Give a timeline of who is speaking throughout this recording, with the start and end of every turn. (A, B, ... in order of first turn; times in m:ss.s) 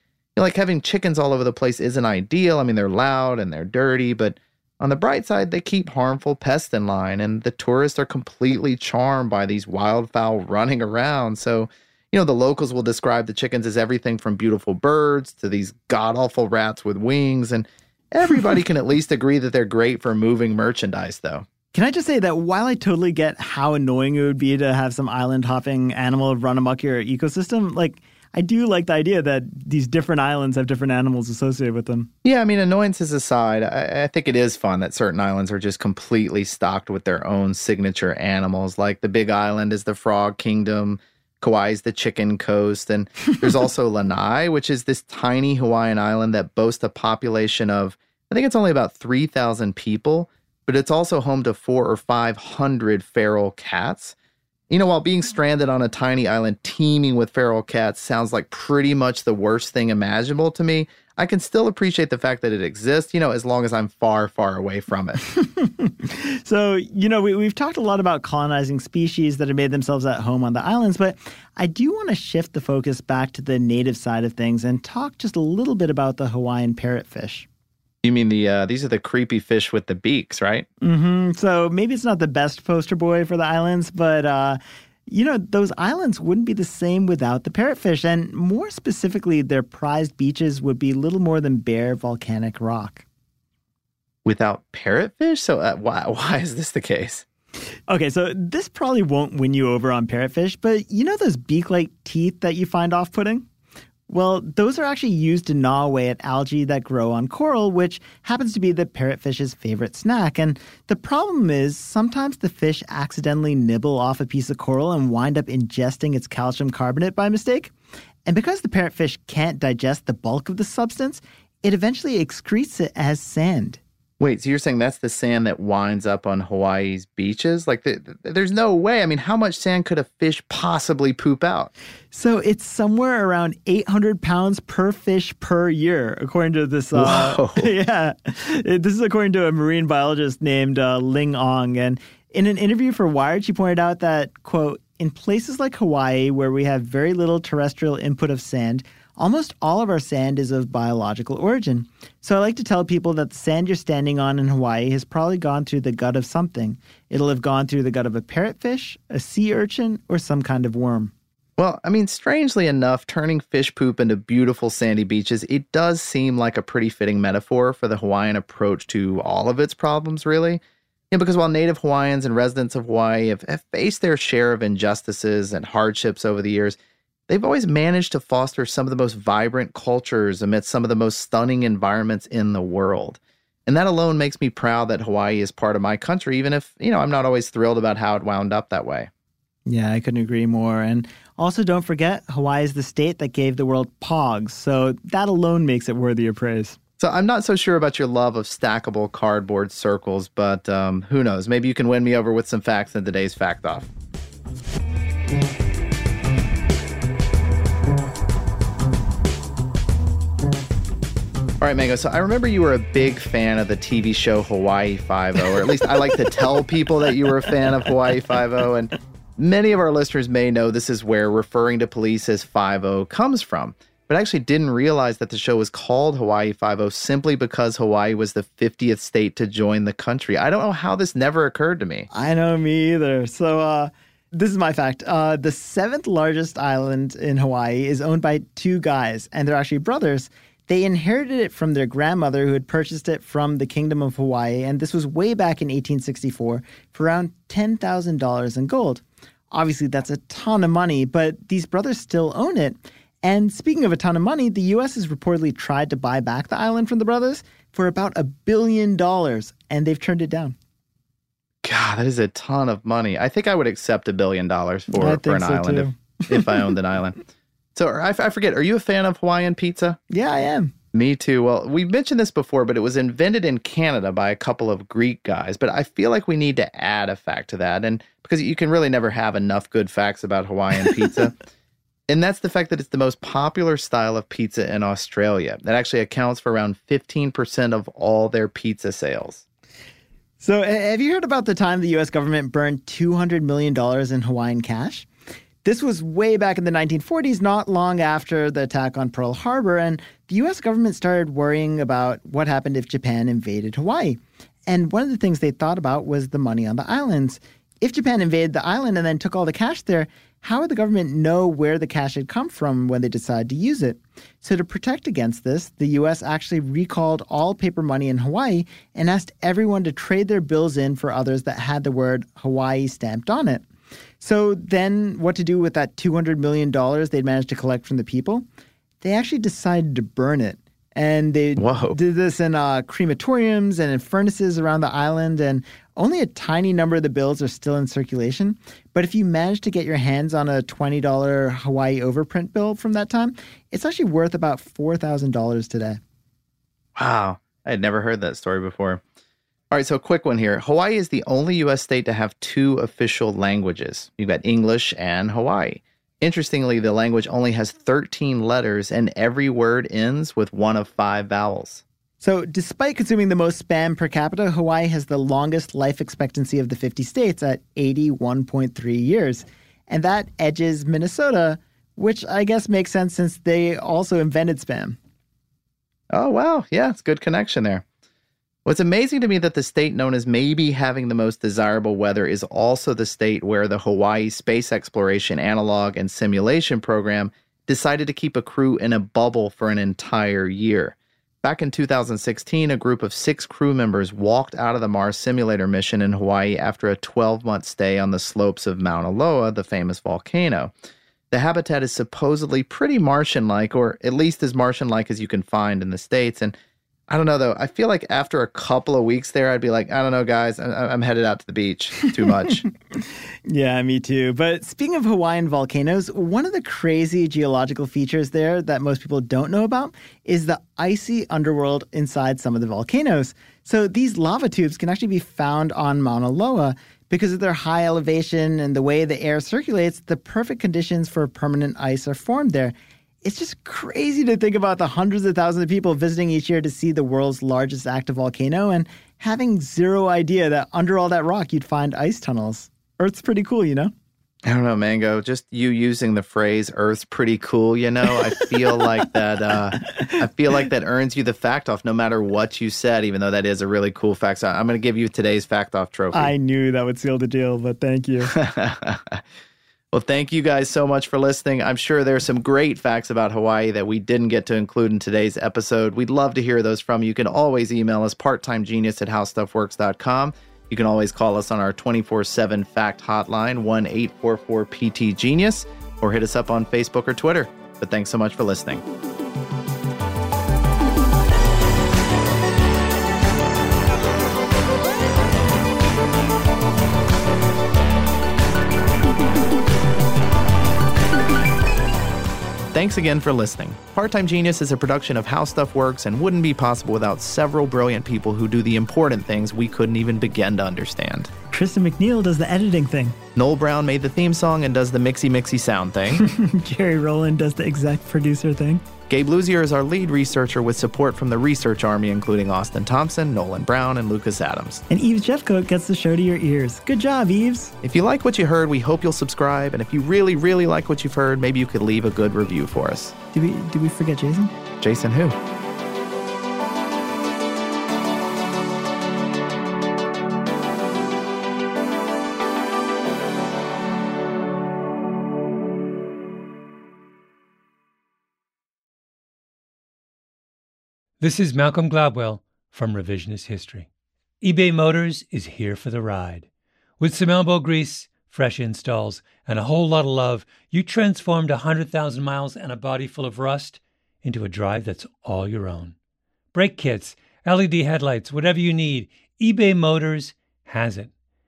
0:00.4-0:21.5 A
0:21.7-0:32.1 B
0:32.2-0:54.1 A
0:54.7-1:05.2 A
1:05.4-1:17.5 B
1:18.0-1:20.7 A
1:20.8-1:33.0 B
1:34.2-1:37.2 A
1:37.9-1:43.4 B
1:44.1-1:57.7 B
1:58.2-2:03.8 B
2:04.2-2:11.7 A
2:12.1-2:41.1 B
2:16.9-2:17.7 A
2:41.6-2:56.8 A
2:57.3-3:09.1 A
3:09.6-3:16.8 B
3:17.0-3:23.9 A
3:31.6-3:52.1 A
3:52.1-4:20.5 B
4:21.6-4:27.2 A
4:24.9-4:26.7 B
4:27.7-4:30.0 A
4:30.1-4:30.7 B
4:30.9-4:41.4 A
4:42.1-4:49.4 A
4:50.4-4:55.1 B
4:55.6-5:23.6 B
5:24.2-5:28.4 B
5:29.0-5:46.0 B
5:31.6-5:32.0 A
5:47.0-5:49.0 A
5:49.7-6:01.8 A
6:02.2-6:15.0 B
6:16.1-6:17.8 A
6:18.6-6:40.7 A
6:41.3-6:46.6 A
6:47.1-6:52.7 A
6:52.9-7:23.9 B
7:24.4-7:36.3 A
7:36.1-7:38.3 B
7:38.2-7:39.2 A
7:39.9-7:58.8 A
8:12.7-8:21.3 A
8:21.5-8:23.2 B
8:23.3-8:26.2 A
8:26.2-8:28.8 B
8:29.1-8:34.8 A
8:34.9-8:37.7 B
8:37.8-8:43.1 A
8:43.3-8:44.5 B
8:44.8-8:45.4 A
9:01.2-9:03.9 C
9:04.4-9:15.9 C
9:16.5-9:21.1 C